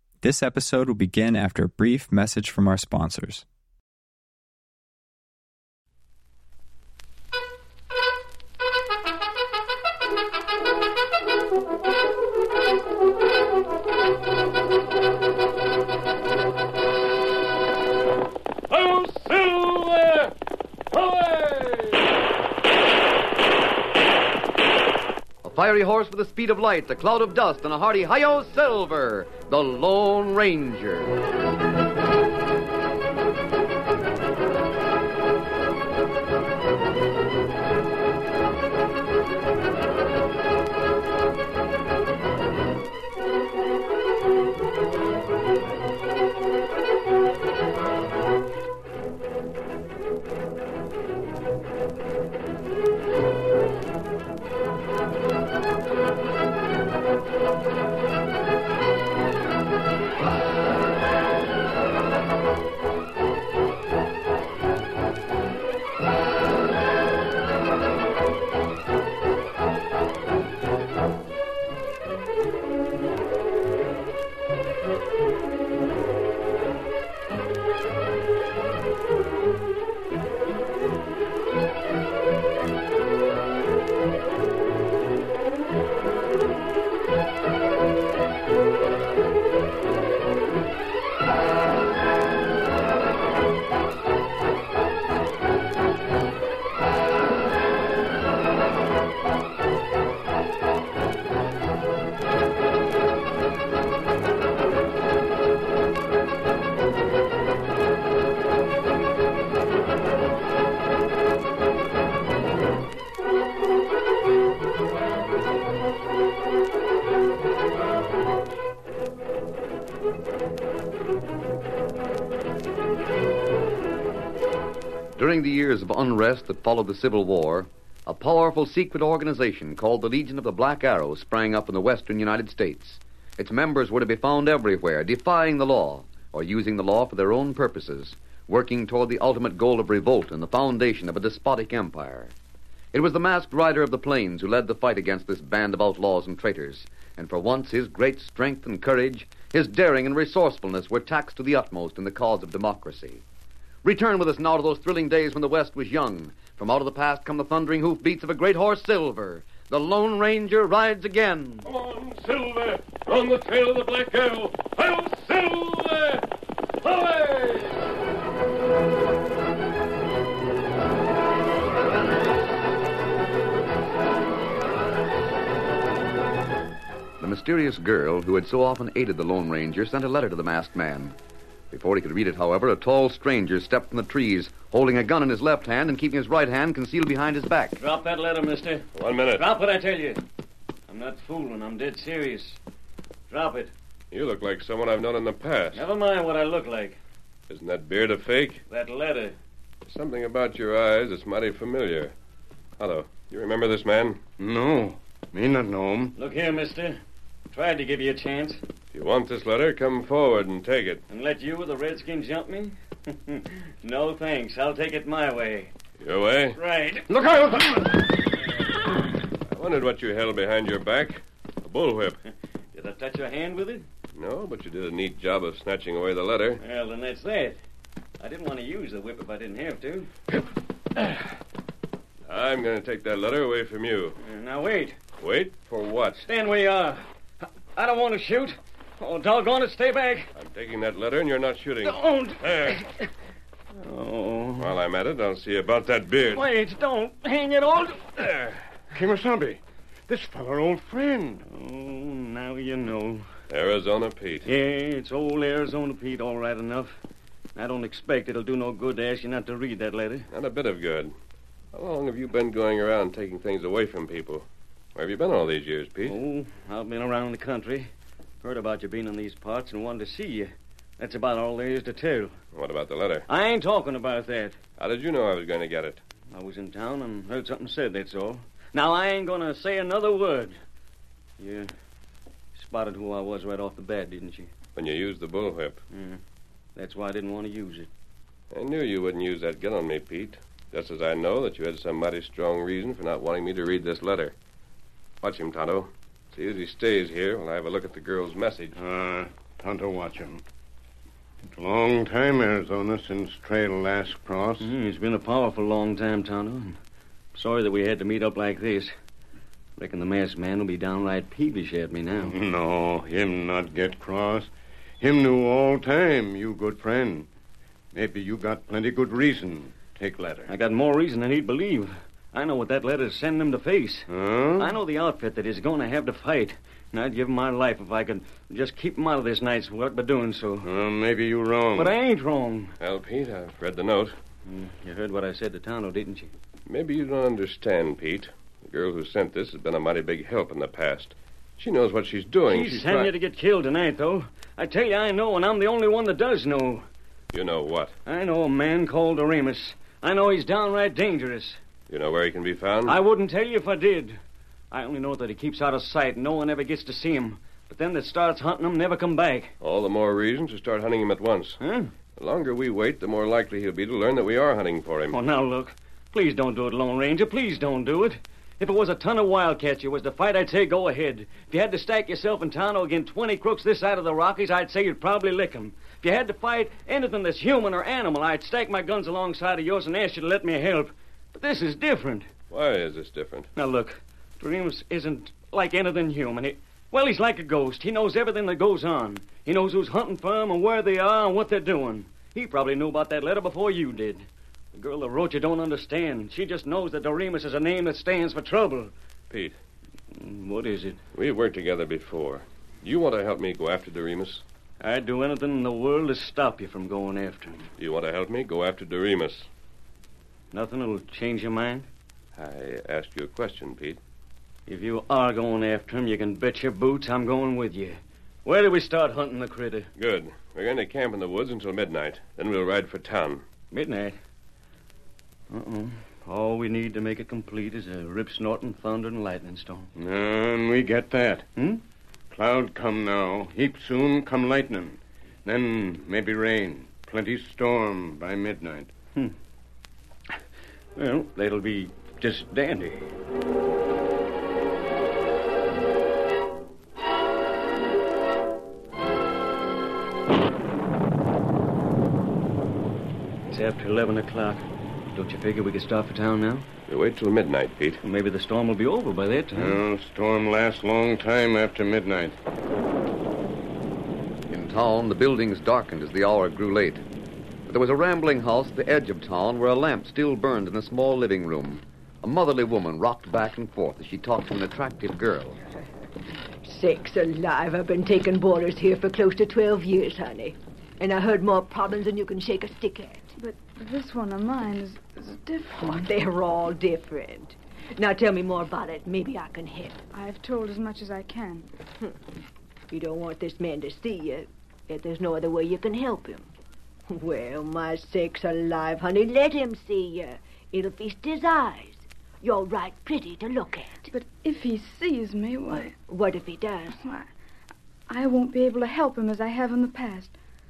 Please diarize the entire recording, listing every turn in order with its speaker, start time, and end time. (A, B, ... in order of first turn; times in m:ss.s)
0:00.2-0:03.4 A
0:18.7-0:20.3 B
0:20.9-0:22.1 B
0:25.4-0:31.1 C
2:05.1-2:22.4 C
2:22.9-2:33.2 C
2:33.8-2:41.7 C
2:41.6-2:46.3 B
2:46.8-2:47.8 B
2:57.2-3:01.2 C
3:01.7-3:07.8 C
3:07.8-3:10.2 D
3:08.9-3:09.5 B
3:10.9-3:12.6 D
3:13.3-3:13.7 D
3:14.1-3:15.8 B
3:15.7-3:17.0 D
3:17.5-3:18.6 B
3:18.7-3:19.4 D
3:19.8-3:22.1 B
3:22.8-3:24.2 B
3:24.4-3:26.1 E
3:26.2-3:27.0 D
3:27.5-3:28.6 D
3:28.9-3:31.0 B
3:31.1-3:35.7 D
3:36.0-3:36.6 B
3:36.6-3:37.1 D
3:37.1-3:37.7 E
3:39.5-3:42.2 B
3:42.7-3:43.8 D
3:44.1-3:46.6 B
3:46.6-3:47.6 D
3:48.2-3:50.1 D
3:52.3-3:54.2 B
3:54.2-3:55.0 D
3:55.1-3:56.3 B
3:56.2-3:57.0 D
3:57.7-4:00.3 D
4:00.3-4:02.8 B
4:01.8-4:03.0 D
4:03.8-4:04.8 D
4:04.6-4:06.5 B
4:06.2-4:08.1 D
4:08.2-4:08.6 B
4:08.9-4:11.4 E
4:11.5-4:13.2 D
4:13.5-4:14.5 B
4:14.4-4:17.0 D
4:17.5-4:20.3 D
4:20.3-4:21.1 B
4:21.7-4:26.2 B
4:26.0-4:27.9 D
4:28.4-4:32.3 D
4:32.5-4:33.3 B
4:33.3-4:34.6 D
4:34.8-4:36.0 B
4:36.3-4:40.6 D
4:41.4-4:41.7 D
4:42.5-4:44.5 D
4:44.7-4:45.8 B
4:45.9-4:46.2 D
4:46.8-4:47.9 D
4:48.5-4:54.3 B
4:55.2-4:58.7 B
4:58.7-5:00.4 E
5:01.5-5:04.7 E
5:04.6-5:06.8 D
5:07.3-5:08.9 D
5:09.8-5:12.3 D
5:12.2-5:17.3 E
5:17.9-5:20.5 E
5:20.5-5:24.1 D
5:24.1-5:24.7 E
5:24.6-5:30.7 D
5:30.6-5:32.0 E
5:31.8-5:32.7 D
5:32.8-5:34.2 B
5:34.4-5:36.3 D
5:36.7-5:43.1 B
5:42.5-5:46.8 D
5:47.3-5:48.0 B
5:48.0-5:51.6 D
5:51.9-5:53.0 B
5:52.9-5:54.2 D
5:54.7-5:59.5 D
5:59.6-6:01.6 B
6:01.6-6:01.9 D
6:02.2-6:05.2 B
6:05.1-6:22.3 D
6:22.5-6:23.5 B
6:23.6-6:38.9 D
6:39.3-6:39.6 B
6:40.1-6:41.0 D
6:41.1-6:44.4 B
6:44.8-6:47.7 D
6:47.8-6:49.5 B
6:50.5-6:51.9 D
6:52.3-6:54.0 B
6:54.7-6:59.9 D
7:00.0-7:03.4 B
7:03.7-7:04.2 D
7:05.5-7:09.9 D
7:10.0-7:11.5 E
7:12.3-7:18.9 E
7:21.0-7:23.1 D
7:33.5-7:36.7 D
7:36.9-7:38.0 B
7:38.0-7:39.8 D
7:39.5-7:42.4 E
7:44.5-7:47.0 C
7:47.7-7:55.6 C
7:56.6-8:03.3 F
8:03.4-8:06.1 G
8:05.8-8:10.0 F
8:10.1-8:11.6 G
8:12.9-8:16.5 F
8:17.1-8:24.1 F
8:24.1-8:25.9 G
8:25.7-8:27.0 F
8:26.9-8:27.3 G
8:28.1-8:30.4 G